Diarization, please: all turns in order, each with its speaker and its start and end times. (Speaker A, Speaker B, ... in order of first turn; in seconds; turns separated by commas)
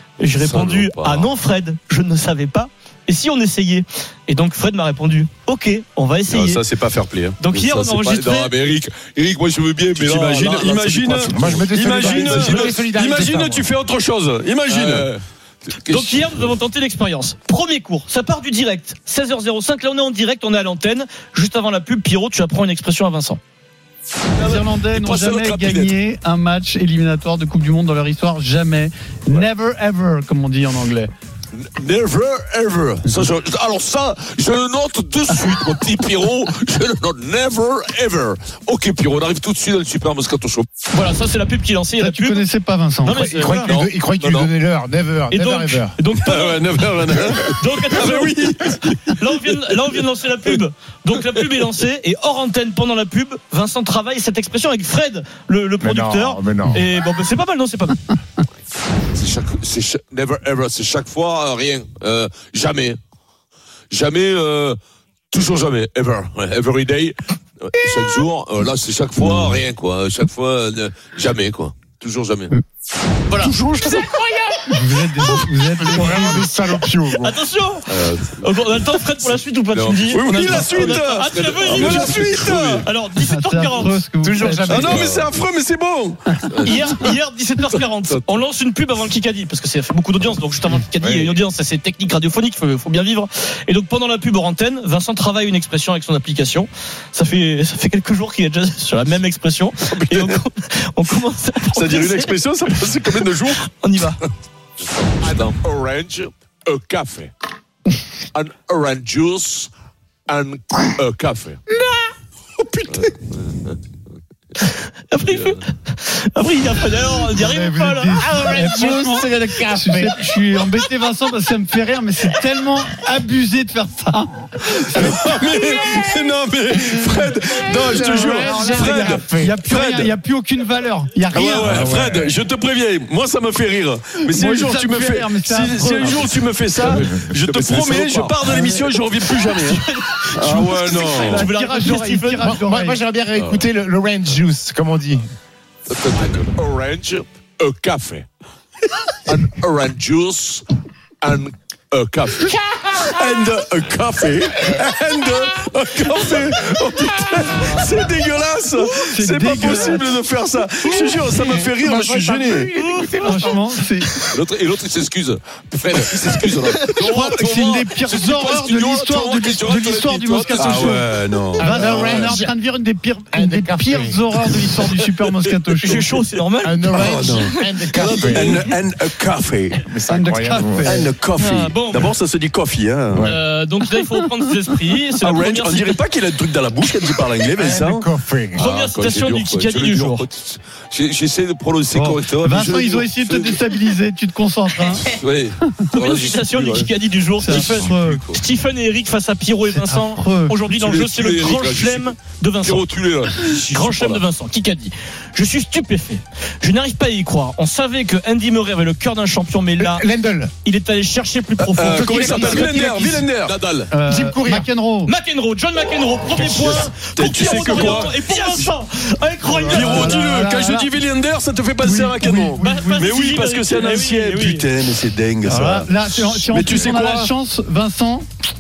Speaker A: 0.2-6.6, Speaker B: 0.3-1.3, Speaker C: 6.3-7.4, Speaker A: 7.4-8.5, Speaker B: 7.5-12.9, Speaker C: 9.9-15.1, Speaker D: 11.3-13.7, Speaker B: 14.7-16.5, Speaker A: 15.9-23.4, Speaker B: 24.4-26.0, Speaker E: 24.4-31.1, Speaker B: 31.5-40.7, Speaker A: 40.9-42.5, Speaker E: 42.0-43.4, Speaker A: 43.0-43.7, Speaker D: 43.1-46.0, Speaker B: 43.5-44.5, Speaker A: 45.3-46.8, Speaker C: 46.3-48.7, Speaker A: 47.4-58.1, Speaker D: 55.8-56.9, Speaker B: 59.1-63.0, Speaker B: 63.9-64.8, Speaker B: 65.3-72.5, Speaker A: 73.3-74.0, Speaker E: 74.7-76.5, Speaker D: 75.8-77.4, Speaker A: 77.1-84.0, Speaker B: 77.9-78.5, Speaker B: 79.7-82.9, Speaker C: 80.1-82.8, Speaker E: 83.2-85.0, Speaker D: 84.2-85.3, Speaker C: 84.7-86.4, Speaker B: 84.8-85.3, Speaker B: 86.5-87.1, Speaker A: 86.6-102.4, Speaker B: 87.7-88.4, Speaker D: 91.0-91.4, Speaker B: 99.9-100.3, Speaker C: 101.7-103.7, Speaker A: 103.6-104.2, Speaker B: 104.8-107.3, Speaker B: 108.3-109.7, Speaker B: 110.3-111.6, Speaker B: 112.9-113.8, Speaker A: 114.7-118.3, Speaker B: 115.3-115.6, Speaker E: 117.4-125.0, Speaker D: 118.2-120.2, Speaker C: 124.8-130.1, Speaker D: 125.1-125.6, Speaker D: 127.7-129.7, Speaker E: 128.1-132.3, Speaker C: 131.3-141.5, Speaker D: 131.9-132.4, Speaker E: 134.2-136.4, Speaker B: 136.8-138.9, Speaker A: 139.3-142.6, Speaker E: 140.6-143.0, Speaker D: 142.4-145.3, Speaker B: 143.4-143.7, Speaker B: 145.9-148.3, Speaker B: 149.3-150.7, Speaker B: 151.2-152.6, Speaker C: 153.1-162.7, Speaker E: 158.9-160.2, Speaker D: 160.8-163.6, Speaker A: 162.8-163.6, Speaker E: 163.1-164.2, Speaker B: 164.3-171.1, Speaker E: 167.0-176.2, Speaker C: 170.5-171.8, Speaker D: 171.6-172.5, Speaker B: 171.8-172.3, Speaker D: 173.3-174.3, Speaker A: 175.8-178.6, Speaker D: 176.6-178.8, Speaker C: 177.0-179.9, Speaker D: 179.8-181.0, Speaker E: 180.1-181.1, Speaker C: 180.8-183.3, Speaker A: 181.4-182.2, Speaker D: 183.1-183.4, Speaker A: 183.2-186.0, Speaker C: 185.2-188.1, Speaker D: 187.5-188.6, Speaker A: 188.6-190.3, Speaker B: 188.6-193.6, Speaker E: 191.9-195.1, Speaker B: 195.0-196.9, Speaker A: 195.9-202.9, Speaker E: 197.4-198.2, Speaker B: 197.4-198.4, Speaker E: 199.7-200.6, Speaker B: 200.7-204.2, Speaker A: 203.7-210.1, Speaker D: 209.8-210.5, Speaker A: 210.6-213.0, Speaker C: 211.6-213.6, Speaker D: 211.8-213.3, Speaker B: 212.4-212.7, Speaker B: 213.4-213.9, Speaker E: 213.9-215.1, Speaker D: 214.0-214.7, Speaker A: 215.1-220.2, Speaker C: 216.4-218.7, Speaker E: 219.5-220.9, Speaker C: 219.7-227.3, Speaker E: 221.8-223.2, Speaker A: 222.6-224.7, Speaker E: 225.4-228.2